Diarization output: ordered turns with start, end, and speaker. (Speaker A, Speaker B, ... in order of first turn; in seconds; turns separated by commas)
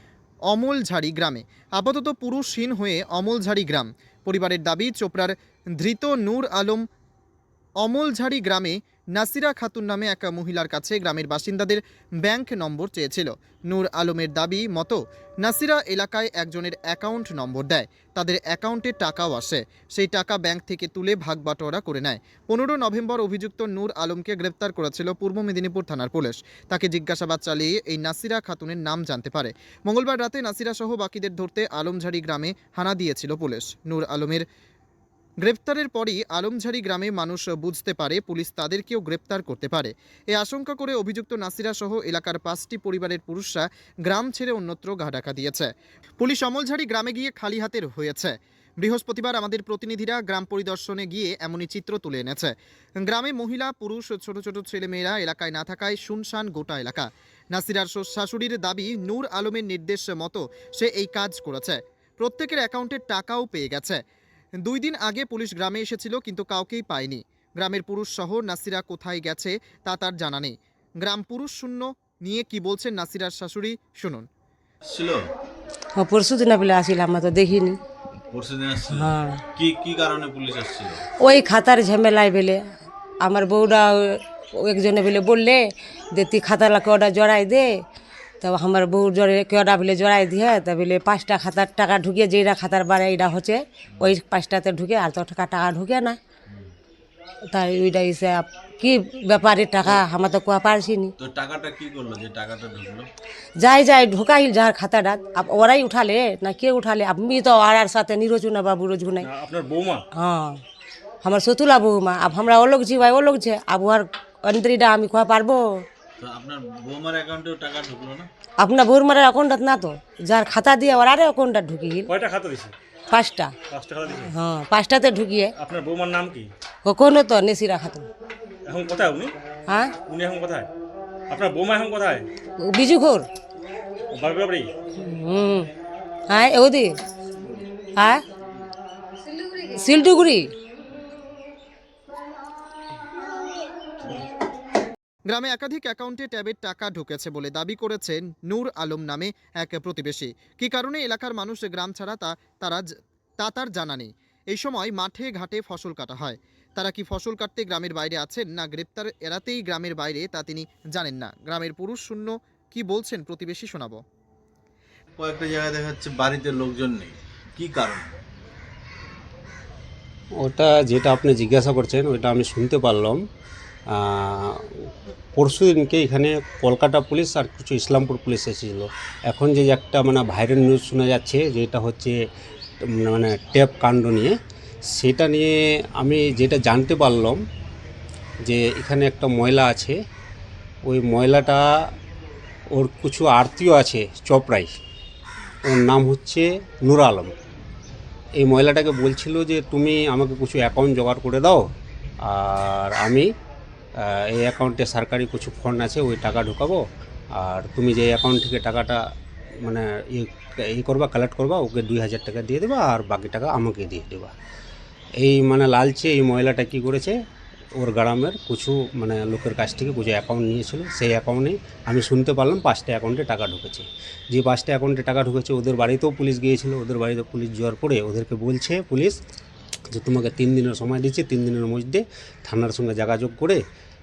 Speaker A: 0.5-6.8, Speaker A: 7.8-34.4, Speaker A: 35.4-64.0, Speaker A: 64.6-74.3, Speaker B: 74.9-75.2, Speaker C: 76.0-77.8, Speaker B: 78.3-81.0, Speaker C: 78.9-79.4, Speaker C: 81.2-82.6, Speaker C: 83.2-83.9, Speaker C: 84.6-85.6, Speaker C: 86.2-87.7, Speaker C: 88.4-96.2, Speaker C: 97.5-101.1, Speaker B: 101.2-103.1, Speaker C: 103.6-109.3, Speaker D: 109.2-110.0, Speaker C: 110.2-110.6, Speaker C: 111.2-115.8, Speaker B: 116.2-118.3, Speaker C: 118.6-122.1, Speaker D: 122.1-122.7, Speaker C: 123.1-123.5, Speaker D: 123.7-124.3, Speaker C: 124.2-125.5, Speaker D: 125.6-126.5, Speaker C: 126.9-128.1, Speaker D: 128.7-129.3, Speaker D: 130.1-130.7, Speaker D: 131.3-132.2, Speaker C: 132.7-133.3, Speaker D: 134.1-134.7, Speaker C: 135.0-135.7, Speaker C: 136.3-136.9, Speaker C: 138.0-138.2, Speaker C: 139.7-140.5, Speaker A: 145.3-152.9, Speaker A: 153.4-164.0, Speaker B: 165.2-168.1, Speaker E: 170.4-173.2, Speaker E: 173.9-174.6, Speaker E: 175.4-182.2, Speaker E: 182.9-184.3, Speaker E: 185.0-187.4, Speaker E: 188.4-190.0, Speaker E: 190.9-191.6, Speaker E: 192.8-194.7, Speaker E: 195.7-197.3, Speaker E: 198.4-201.7, Speaker E: 202.2-203.3, Speaker E: 204.0-206.8, Speaker E: 207.4-209.0, Speaker E: 209.7-214.3, Speaker E: 215.2-217.2, Speaker E: 217.8-229.2, Speaker E: 229.9-233.6